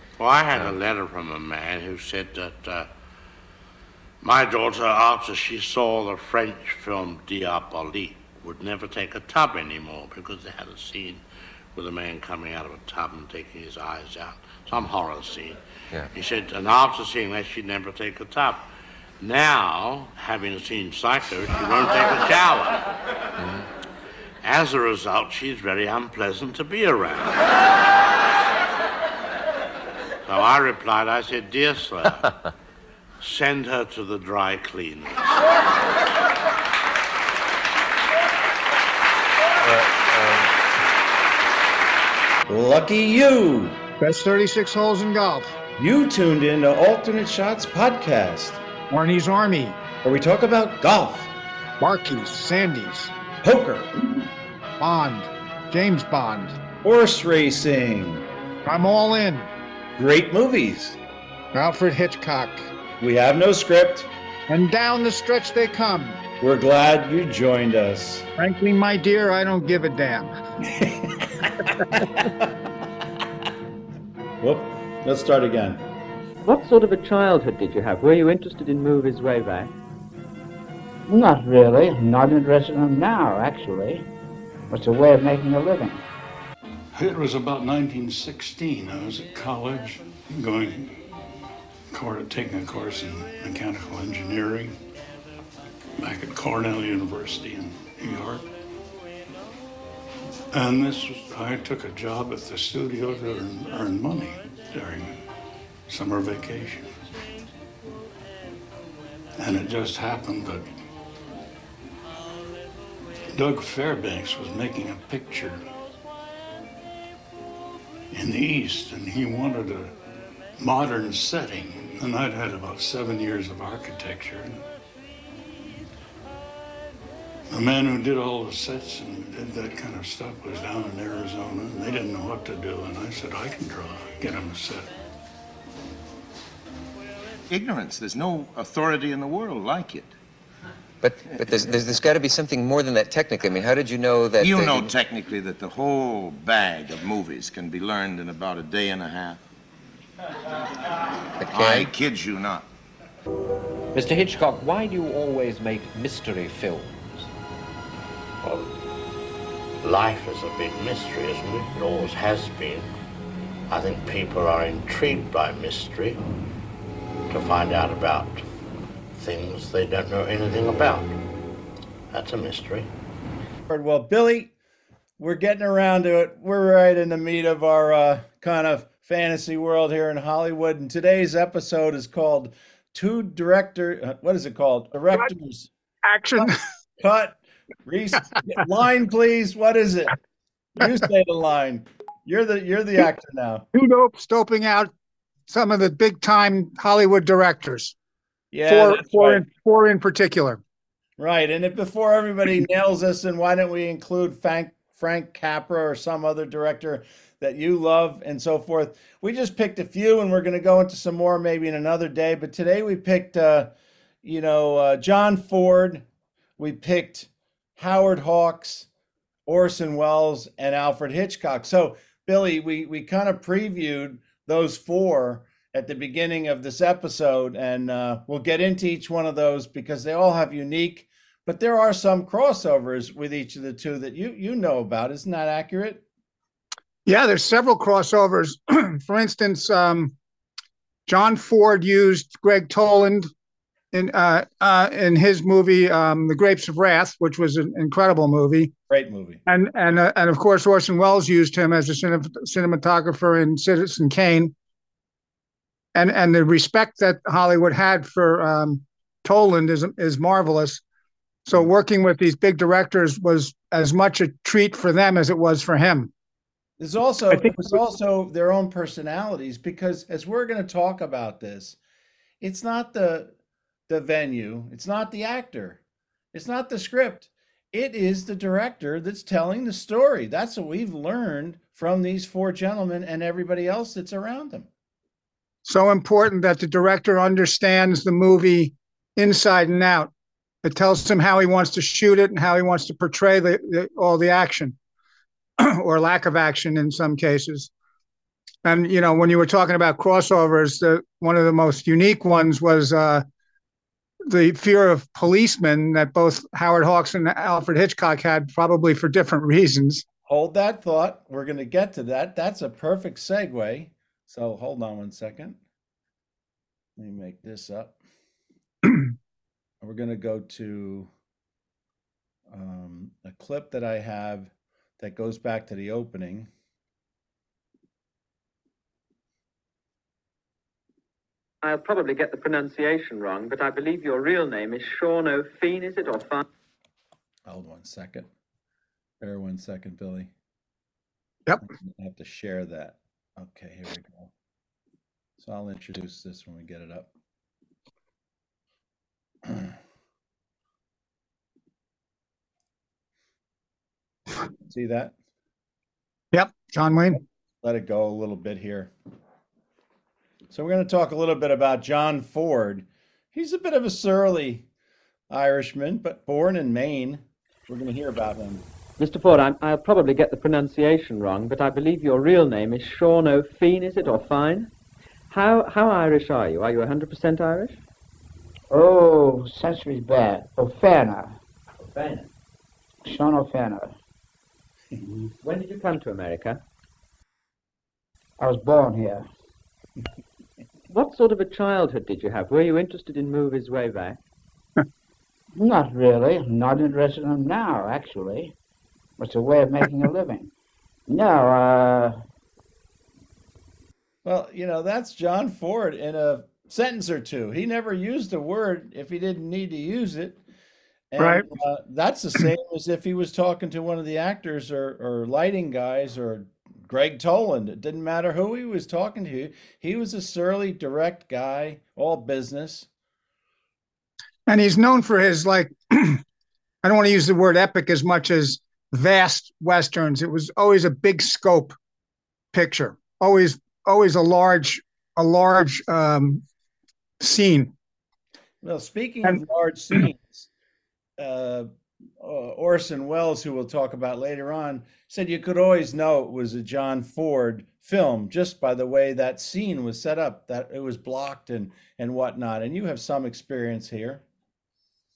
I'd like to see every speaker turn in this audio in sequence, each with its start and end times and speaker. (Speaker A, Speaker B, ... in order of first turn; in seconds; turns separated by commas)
Speaker A: 0.2-2.9, Speaker A: 4.2-15.6, Speaker A: 16.1-18.7, Speaker A: 19.2-22.9, Speaker B: 23.4-23.7, Speaker A: 24.4-27.4, Speaker A: 30.2-32.3, Speaker A: 33.2-35.4, Speaker B: 39.8-40.4, Speaker C: 42.5-43.8, Speaker D: 44.0-45.5, Speaker C: 45.8-48.6, Speaker D: 48.9-49.8, Speaker C: 50.0-51.3, Speaker D: 51.8-53.1, Speaker C: 53.4-53.9, Speaker D: 54.8-56.6, Speaker C: 56.8-58.2, Speaker D: 58.6-59.5, Speaker C: 60.0-61.0, Speaker D: 61.5-62.7, Speaker C: 63.0-64.1, Speaker D: 64.5-66.2, Speaker C: 66.4-68.3, Speaker D: 68.4-70.3, Speaker C: 70.7-72.5, Speaker C: 74.4-75.8, Speaker E: 76.4-79.7, Speaker F: 81.1-84.1, Speaker F: 84.7-86.0, Speaker G: 86.9-91.0, Speaker G: 91.9-94.8, Speaker G: 96.0-98.5, Speaker G: 100.5-105.2, Speaker G: 105.9-106.9, Speaker G: 109.4-110.7, Speaker G: 113.3-115.6, Speaker G: 118.1-119.9, Speaker G: 120.6-124.6, Speaker G: 127.5-134.9, Speaker H: 137.5-140.1, Speaker B: 141.0-144.9, Speaker H: 144.4-149.4, Speaker B: 151.4-151.9, Speaker H: 151.5-152.7, Speaker I: 153.9-157.3, Speaker A: 158.4-158.7, Speaker A: 159.8-162.9, Speaker A: 163.7-166.2, Speaker A: 167.3-168.4, Speaker A: 169.1-171.1, Speaker A: 172.1-172.9, Speaker C: 173.7-174.5, Speaker C: 175.2-185.7, Speaker D: 186.0-186.6, Speaker C: 187.0-190.2, Speaker C: 190.8-193.7, Speaker D: 193.7-194.9, Speaker D: 195.5-197.9, Speaker C: 198.5-199.4, Speaker D: 198.7-200.6, Speaker C: 201.2-213.7, Speaker C: 214.2-216.0, Speaker C: 216.6-218.9, Speaker C: 219.5-236.1, Speaker D: 237.1-240.1, Speaker D: 241.1-243.3, Speaker D: 243.9-248.7, Speaker C: 248.9-249.4, Speaker D: 249.4-254.5, Speaker D: 255.9-260.8, Speaker D: 261.4-266.1, Speaker C: 266.8-271.8, Speaker D: 267.3-267.7, Speaker C: 272.4-273.3, Speaker C: 273.9-275.8, Speaker C: 276.3-284.7, Speaker D: 285.6-290.1, Speaker D: 290.6-294.7, Speaker D: 295.6-297.7, Speaker D: 298.6-303.2, Speaker D: 304.3-310.0, Speaker C: 310.3-315.6, Speaker C: 317.0-318.0, Speaker C: 319.8-321.1, Speaker C: 322.5-326.5, Speaker E: 331.6-336.5, Speaker C: 337.4-338.3, Speaker C: 339.2-340.3, Speaker C: 341.6-344.3, Speaker C: 345.4-347.1, Speaker C: 349.4-349.7, Speaker C: 354.6-355.1, Speaker D: 356.3-357.2, Speaker C: 357.6-358.9, Speaker C: 360.5-364.6, Speaker C: 365.3-368.6, Speaker E: 369.0-374.7, Speaker E: 375.3-377.8, Speaker F: 378.7-381.4, Speaker E: 381.8-382.3, Speaker F: 383.0-383.9, Speaker E: 385.4-386.6, Speaker F: 388.4-389.3, Speaker E: 390.9-394.2, Speaker F: 395.6-398.5, Speaker F: 399.2-400.5, Speaker F: 401.1-402.2, Speaker C: 404.2-410.4, Speaker C: 411.1-422.9, Speaker D: 411.2-411.4, Speaker D: 424.5-426.2, Speaker D: 426.8-431.7, Speaker D: 432.5-436.4, Speaker D: 437.2-437.7, Speaker C: 438.6-440.5, Speaker C: 441.2-441.7, Speaker C: 442.2-454.2